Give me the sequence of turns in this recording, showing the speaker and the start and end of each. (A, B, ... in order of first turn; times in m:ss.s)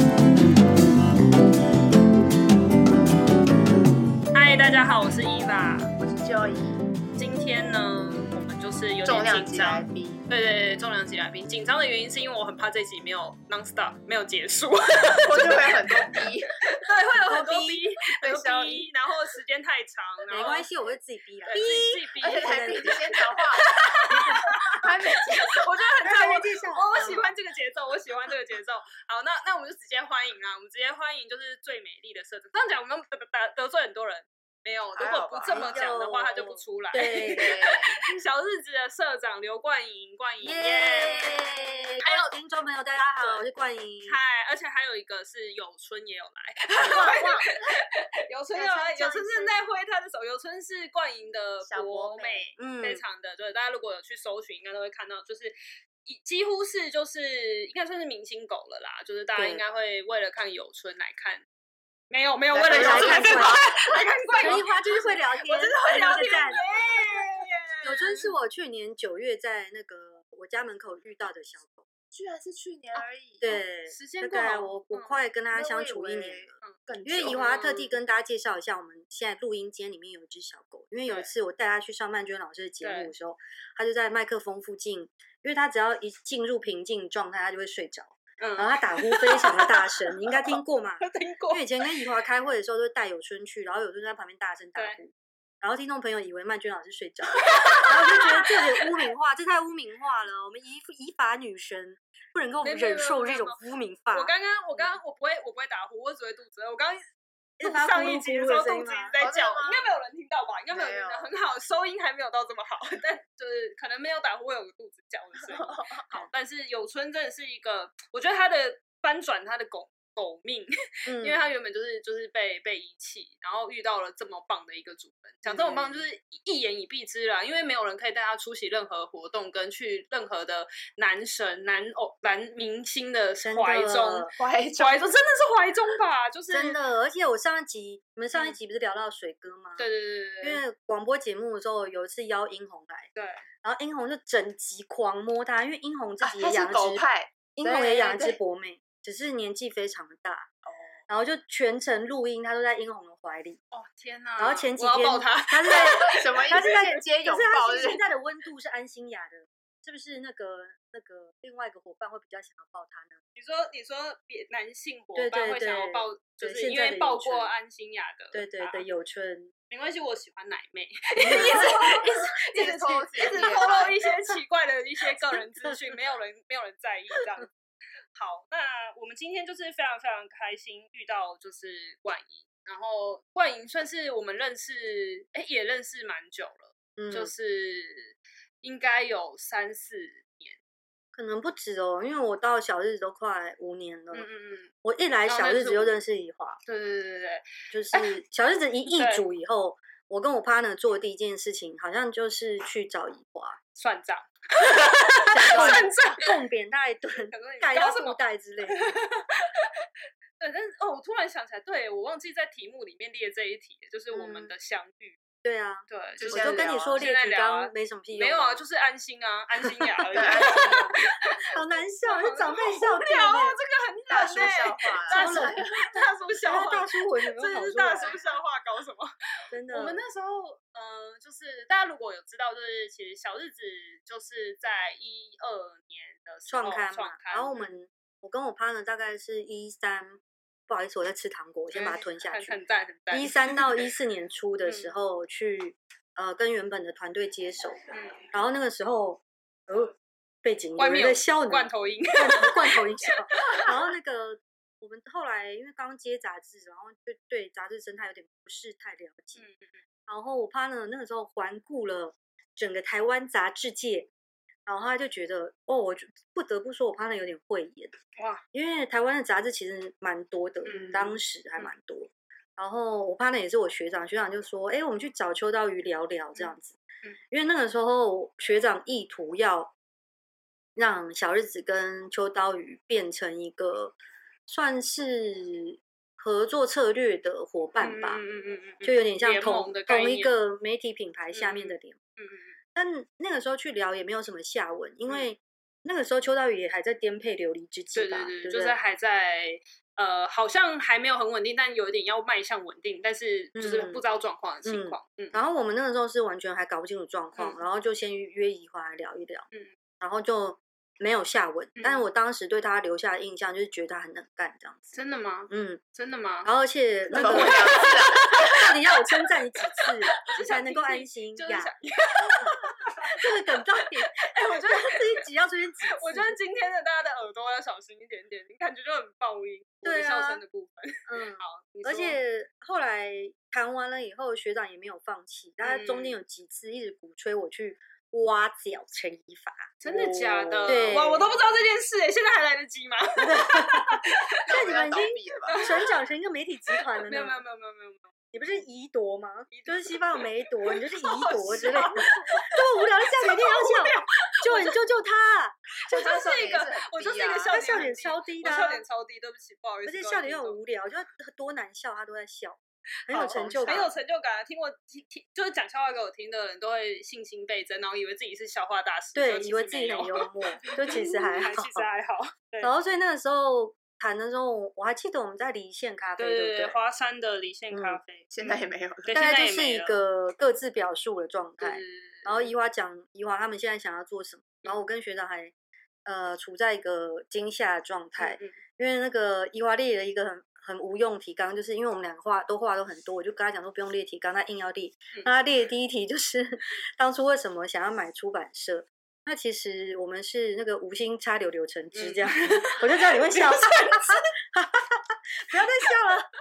0:04.3-0:05.9 A
0:06.0-0:06.8 B
0:07.2-0:20.7 A
0:09.0-0:10.2 B
0:15.2-0:16.6 B
0:17.2-0:17.9 C
0:18.2-0:18.9 B
0:20.3-0:23.1 C
0:21.5-0:22.9 A
0:22.2-0:23.7 B
0:23.6-0:42.0 A
0:24.1-0:24.5 C
0:24.6-0:25.6 B
0:26.0-0:27.3 C
0:35.0-0:35.7 B
0:35.4-0:37.6 C
0:37.3-0:38.0 B
0:40.4-0:44.2 C
0:42.0-0:42.3 B
0:44.0-1:01.4 A
0:46.7-0:47.6 B
0:48.5-0:49.6 B
0:51.6-0:52.5 B
0:52.6-0:53.0 C
0:59.3-0:59.6 C
1:02.1-1:08.3 A
1:02.5-1:04.7 B
1:02.7-1:03.6 C
1:04.4-1:06.6 C
1:05.5-1:06.8 B
1:07.8-1:11.9 C
1:12.1-1:13.6 B
1:13.4-1:45.0 C
1:13.9-1:14.4 A
1:14.3-1:14.7 B
1:14.9-1:15.2 A
1:15.5-1:17.4 B
1:16.6-1:17.9 A
1:22.8-1:23.1 A
1:28.4-1:31.8 A
1:37.4-1:38.6 A
1:42.6-1:43.6 A
1:44.1-1:47.0 A
1:47.6-1:49.1 C
1:47.6-2:16.8 A
1:49.2-1:49.9 B
1:50.7-1:51.3 B
1:55.4-1:56.0 B
2:01.0-2:01.4 C
2:05.4-2:06.1 C
2:13.4-2:14.3 C
2:14.4-2:15.0 B
2:16.5-2:19.8 C
2:19.8-2:20.6 A
2:20.4-2:23.1 C
2:23.1-2:23.4 A
2:23.6-2:27.0 C
2:26.2-2:28.4 B
2:27.6-2:30.5 C
2:31.1-2:33.6 C
2:33.7-2:36.2 A
2:34.4-2:43.2 C
2:36.0-2:38.0 B
2:43.4-2:48.8 A
2:45.1-2:47.5 C
2:48.3-2:49.5 C
2:49.7-2:57.5 A
2:51.2-2:51.8 C
2:51.4-2:54.0 B
2:53.1-2:53.8 C
2:55.3-2:55.7 C
2:58.1-3:10.6 A
3:07.0-3:07.3 C
3:11.1-3:14.3 C
3:14.1-3:14.7 A
3:14.8-3:16.6 C
3:15.3-3:16.0 A
3:16.6-3:18.1 A
3:17.7-3:23.6 C
3:18.9-3:19.2 A
3:23.7-3:26.3 A
3:25.3-3:29.0 C
3:25.4-3:25.9 B
3:27.3-3:29.8 A
3:30.4-3:35.2 A
3:34.1-3:34.5 C
3:35.4-3:38.6 C
3:35.9-3:41.4 A
3:36.2-3:37.0 B
3:40.0-3:40.9 C
3:40.1-3:40.9 B
3:41.5-3:43.6 C
3:42.1-3:49.1 A
3:44.1-3:45.8 B
3:45.1-3:45.7 C
3:46.4-3:48.2 C
3:48.0-3:48.3 B
3:49.5-3:50.0 C
3:49.7-3:57.7 A
3:56.5-4:02.6 C
4:01.7-4:03.8 A
4:03.1-4:07.8 C
4:07.9-4:08.3 A
4:08.3-4:19.4 C
4:10.8-4:13.7 A
4:19.3-4:19.7 A
4:20.1-4:24.1 C
4:24.6-4:27.9 C
4:28.2-4:28.4 A
4:28.5-4:36.7 C
4:30.6-4:31.7 A
4:37.3-4:39.7 C
4:40.8-4:43.9 C
4:44.5-4:48.2 C
4:47.8-4:50.3 A
4:48.8-4:52.0 C
4:51.3-4:52.6 A
4:52.7-4:58.7 C
4:57.9-5:05.4 A
5:03.5-5:04.0 C
5:04.6-5:09.4 C
5:10.0-5:14.8 C
5:11.8-5:12.0 A
5:14.9-5:16.5 A
5:15.5-5:15.8 C
5:16.4-5:21.7 C
5:17.1-5:18.6 A
5:17.1-5:18.4 B
5:20.2-5:25.2 A
5:23.1-5:26.3 C
5:25.9-5:32.2 A
5:29.8-5:30.4 C
5:31.0-5:41.3 C
5:35.6-5:36.2 A
5:39.8-5:44.2 A
5:43.2-5:47.4 C
5:44.4-5:45.7 B
5:45.4-5:45.9 A
5:47.0-5:48.1 A
5:48.3-5:56.2 C
5:49.5-5:54.8 A
5:55.9-5:57.6 B
5:55.9-6:00.6 A
5:57.4-5:58.8 C
5:59.8-6:03.9 C
6:03.1-6:03.8 B
6:03.2-6:12.7 A
6:09.1-6:11.9 C
6:12.6-6:16.7 C
6:16.2-6:18.3 A
6:17.7-6:18.0 C
6:18.3-6:19.1 B
6:19.0-6:20.0 A
6:19.1-6:25.5 C
6:21.6-6:22.5 A
6:26.0-6:46.3 C
6:28.2-6:28.6 A
6:41.9-6:44.2 A